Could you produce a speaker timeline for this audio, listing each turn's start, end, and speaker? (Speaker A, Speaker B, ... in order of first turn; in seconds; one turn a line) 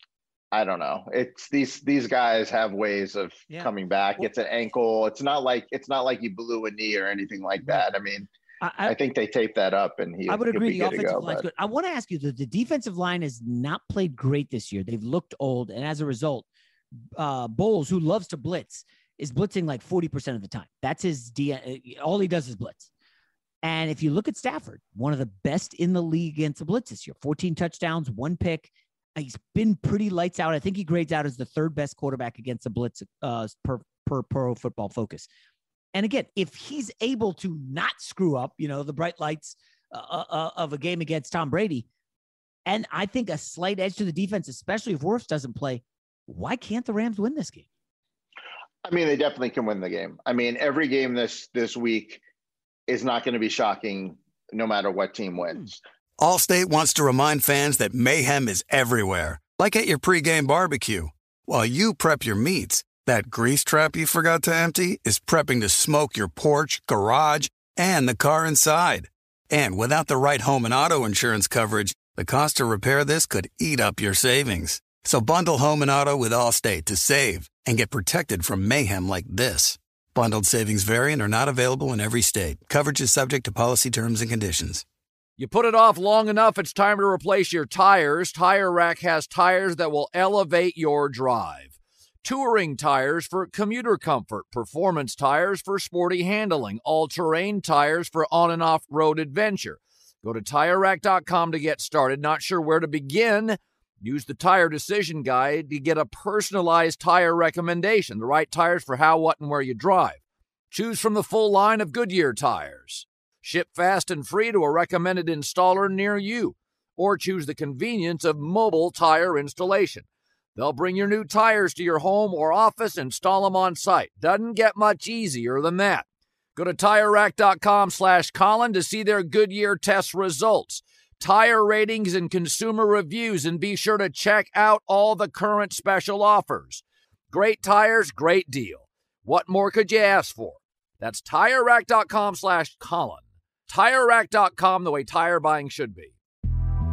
Speaker A: 0.5-8.3
Speaker B: 3.5-4.3
Speaker B: 8.6-9.0
Speaker A: 8.8-11.4
Speaker B: 10.3-16.5
Speaker B: 17.2-22.9
Speaker B: 23.6-35.3
Speaker B: 35.9-41.9
Speaker B: 42.7-47.7
Speaker A: 48.9-52.2
Speaker A: 52.9-55.8
Speaker C: 56.2-84.8
Speaker D: 85.4-110.2
Speaker D: 110.7-126.0
Speaker D: 126.6-146.1